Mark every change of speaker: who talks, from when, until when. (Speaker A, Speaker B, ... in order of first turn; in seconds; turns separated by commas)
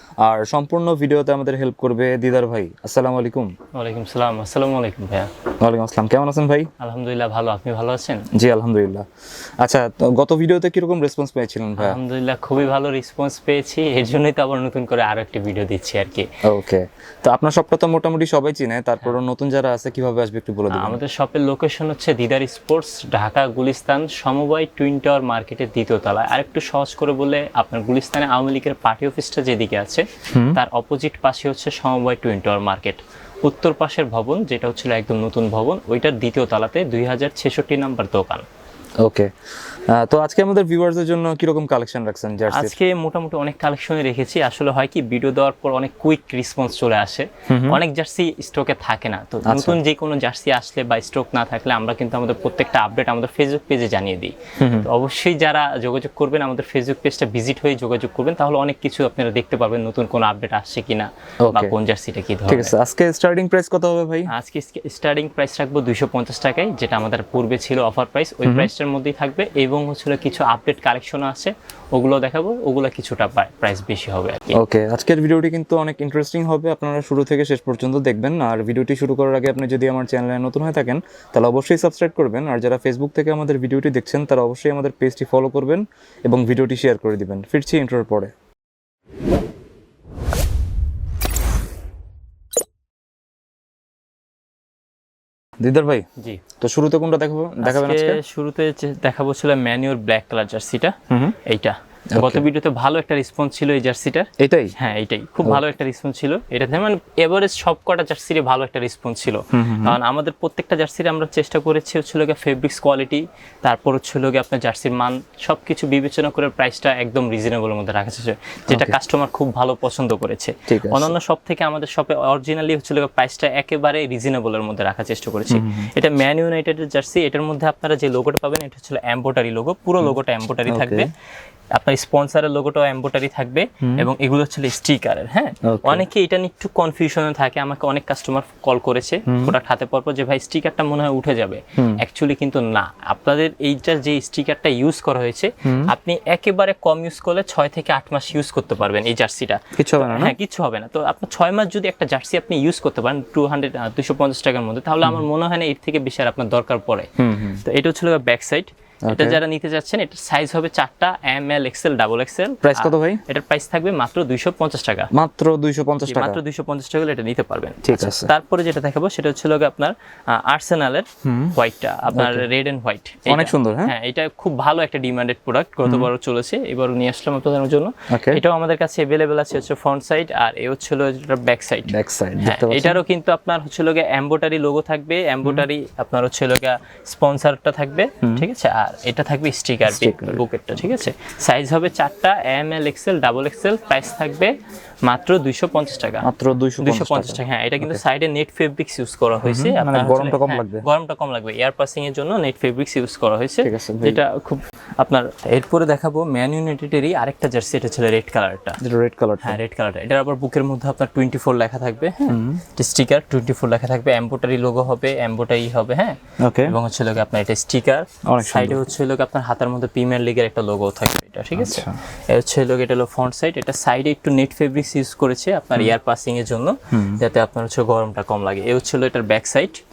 Speaker A: 0.2-3.5, Speaker B: 3.8-5.3, Speaker A: 5.6-6.7, Speaker B: 6.8-8.3, Speaker A: 8.3-9.1, Speaker A: 9.6-12.0, Speaker B: 11.8-16.3, Speaker A: 16.4-21.0, Speaker B: 20.7-38.5, Speaker A: 30.3-30.6, Speaker A: 39.0-39.3, Speaker A: 39.9-42.8, Speaker B: 42.5-62.7, Speaker A: 47.5-47.8, Speaker A: 49.5-49.8, Speaker A: 54.6-54.9, Speaker A: 61.4-61.8, Speaker A: 62.5-64.3, Speaker B: 64.3-74.6, Speaker A: 68.4-68.7, Speaker A: 74.5-88.3, Speaker A: 95.6-96.0, Speaker A: 96.6-98.2, Speaker B: 97.6-131.1, Speaker A: 101.1-101.4, Speaker A: 102.1-102.5, Speaker A: 104.4-104.7, Speaker A: 109.5-110.0, Speaker A: 118.7-119.0, Speaker A: 120.7-121.2, Speaker A: 125.5-125.9, Speaker A: 130.0-131.1, Speaker B: 131.7-157.1, Speaker A: 133.8-134.1, Speaker A: 135.7-136.1, Speaker A: 139.3-139.6, Speaker A: 145.6-145.9, Speaker A: 149.8-150.4, Speaker A: 157.2-157.6, Speaker B: 157.6-165.1, Speaker A: 159.1-159.4, Speaker A: 162.6-163.2, Speaker A: 165.1-166.4, Speaker B: 166.1-194.5, Speaker A: 167.8-168.3, Speaker A: 171.2-171.6, Speaker A: 172.1-172.5, Speaker A: 173.3-173.9, Speaker A: 175.8-176.1, Speaker A: 178.1-178.4, Speaker A: 181.9-183.0, Speaker A: 189.9-190.4, Speaker B: 195.1-196.3, Speaker A: 196.2-198.0, Speaker B: 196.8-208.8, Speaker A: 199.4-200.8, Speaker A: 203.6-204.2, Speaker A: 208.8-209.6, Speaker B: 209.4-229.8, Speaker A: 212.3-212.6, Speaker A: 216.4-216.7, Speaker A: 218.3-218.8, Speaker A: 221.6-222.0, Speaker A: 226.9-227.2